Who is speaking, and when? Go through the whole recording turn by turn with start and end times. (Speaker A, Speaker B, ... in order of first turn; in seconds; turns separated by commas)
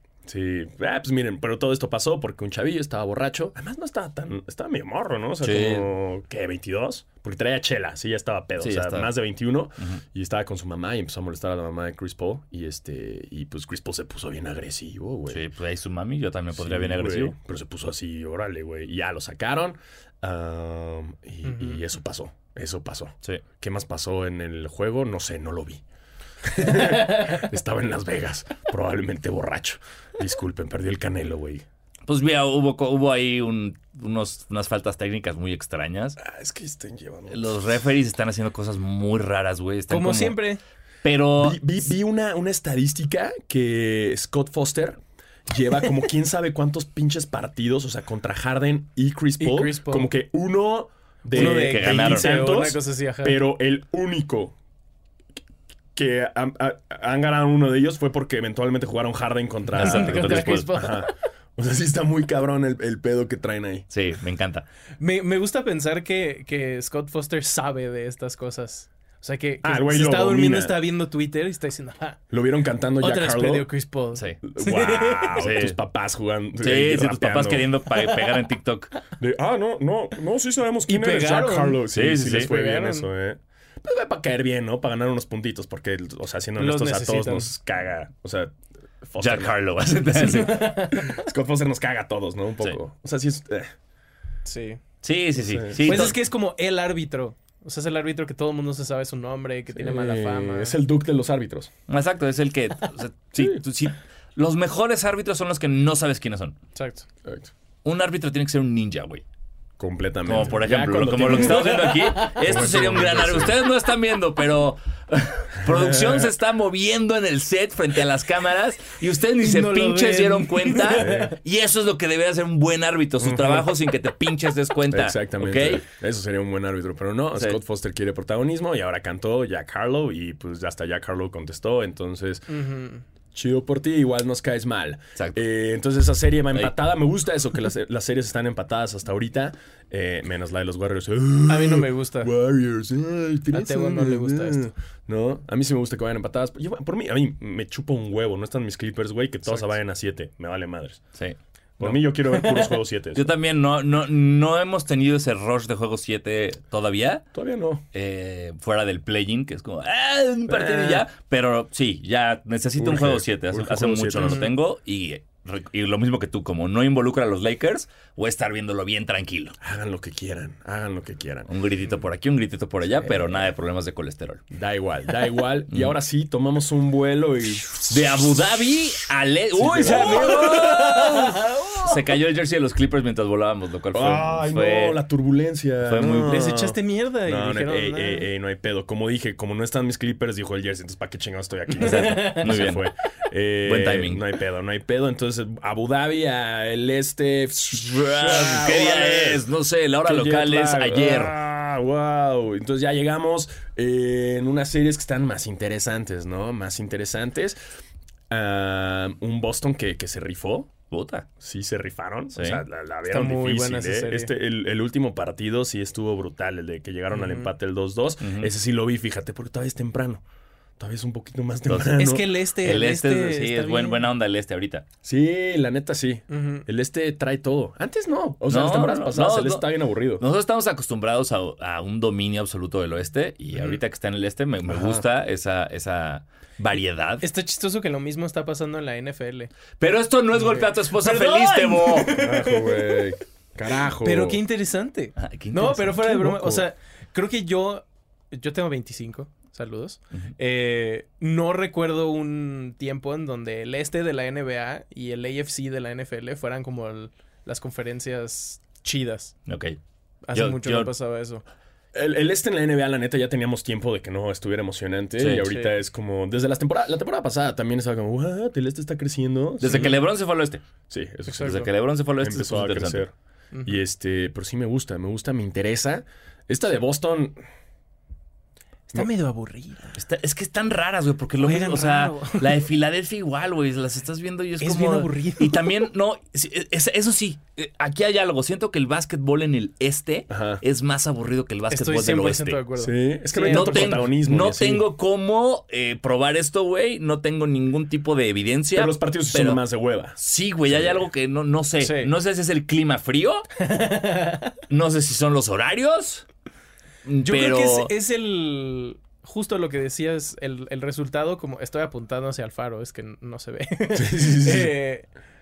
Speaker A: 0.3-15.4, Speaker B: 5.4-5.9, Speaker B: 8.6-9.1, Speaker B: 15.3-17.3, Speaker A: 16.5-25.8, Speaker C: 21.4-21.8, Speaker A: 26.4-31.6, Speaker B: 32.1-36.2, Speaker A: 36.2-37.7, Speaker B: 37.3-40.4, Speaker C: 39.9-40.6, Speaker B: 41.0-41.6, Speaker A: 41.4-54.5, Speaker C: 49.4-50.1, Speaker B: 51.3-52.3, Speaker C: 51.3-53.4, Speaker A: 56.0-63.9, Speaker B: 59.8-60.7, Speaker C: 59.8-61.1, Speaker B: 63.9-64.7, Speaker C: 65.0-72.2, Speaker A: 69.6-70.8, Speaker A: 72.3-73.7, Speaker C: 73.0-75.4, Speaker A: 74.4-77.7, Speaker B: 75.4-75.8, Speaker B: 76.6-78.9, Speaker A: 79.2-89.5, Speaker C: 80.9-83.1, Speaker B: 81.9-82.5, Speaker C: 86.6-87.5, Speaker B: 89.2-91.0, Speaker C: 90.2-91.2, Speaker A: 91.1-93.7, Speaker C: 94.5-94.8, Speaker B: 95.0-96.2, Speaker A: 95.4-96.2, Speaker C: 95.8-100.8, Speaker A: 99.7-101.7, Speaker B: 101.9-106.6, Speaker A: 103.3-103.6, Speaker C: 106.8-107.1, Speaker A: 107.2-107.5, Speaker B: 107.8-109.2, Speaker A: 109.8-113.6, Speaker B: 110.3-125.8, Speaker C: 111.5-112.4, Speaker A: 115.7-116.3, Speaker C: 119.4-121.3, Speaker A: 121.0-121.3, Speaker A: 123.2-123.7, Speaker A: 124.9-132.5, Speaker C: 132.5-133.0, Speaker A: 133.3-151.0, Speaker C: 141.5-142.3, Speaker C: 143.5-144.7, Speaker C: 149.5-149.7, Speaker B: 151.2-151.9, Speaker A: 151.8-153.3, Speaker C: 152.3-152.8, Speaker B: 153.2-157.2, Speaker A: 157.3-157.8, Speaker B: 157.9-169.6, Speaker A: 160.5-161.1, Speaker A: 162.8-164.5, Speaker A: 169.6-171.5, Speaker B: 171.5-174.4, Speaker A: 173.0-173.4, Speaker A: 174.5-177.9, Speaker B: 175.7-176.0, Speaker B: 177.9-185.0, Speaker A: 179.6-181.4, Speaker C: 179.8-181.9, Speaker A: 183.9-199.4, Speaker B: 185.8-186.4, Speaker C: 186.2-188.3, Speaker C: 191.8-192.5, Speaker B: 191.8-192.8, Speaker B: 193.6-194.2, Speaker B: 197.8-201.4, Speaker A: 200.1-207.6, Speaker A: 208.3-210.7, Speaker B: 210.9-211.3, Speaker A: 211.4-220.2, Speaker B: 212.3-212.6, Speaker C: 213.1-214.3, Speaker C: 217.1-217.5, Speaker B: 218.2-218.5, Speaker A: 220.8-222.3, Speaker B: 221.7-224.8, Speaker C: 222.0-224.1, Speaker A: 225.0-230.2, Speaker C: 226.3-226.7, Speaker B: 228.5-237.2, Speaker A: 234.7-235.0, Speaker C: 237.2-239.5, Speaker B: 239.8-242.2, Speaker C: 240.3-243.1, Speaker A: 242.2-244.4, Speaker C: 244.0-259.4, Speaker B: 245.2-246.1, Speaker A: 246.0-246.6, Speaker B: 259.5-259.8, Speaker C: 260.3-261.4, Speaker B: 260.3-260.9, Speaker A: 261.9-270.0, Speaker B: 265.2-265.5, Speaker C: 265.4-265.7, Speaker B: 269.6-270.6, Speaker C: 269.7-269.9, Speaker A: 270.9-271.7, Speaker C: 271.3-271.7, Speaker B: 271.4-273.1, Speaker A: 272.2-273.1, Speaker C: 273.5-273.8, Speaker A: 273.6-277.4, Speaker C: 278.9-280.0, Speaker B: 280.0-292.6, Speaker C: 281.4-282.6, Speaker C: 284.6-285.9, Speaker A: 290.3-290.6, Speaker C: 291.7-294.0, Speaker A: 292.8-294.9, Speaker B: 293.4-299.6, Speaker A: 298.7-301.1, Speaker B: 300.2-303.4, Speaker C: 301.8-302.1, Speaker C: 303.6-304.6, Speaker B: 304.7-306.2, Speaker B: 307.1-307.9, Speaker C: 307.2-315.1, Speaker A: 313.9-314.7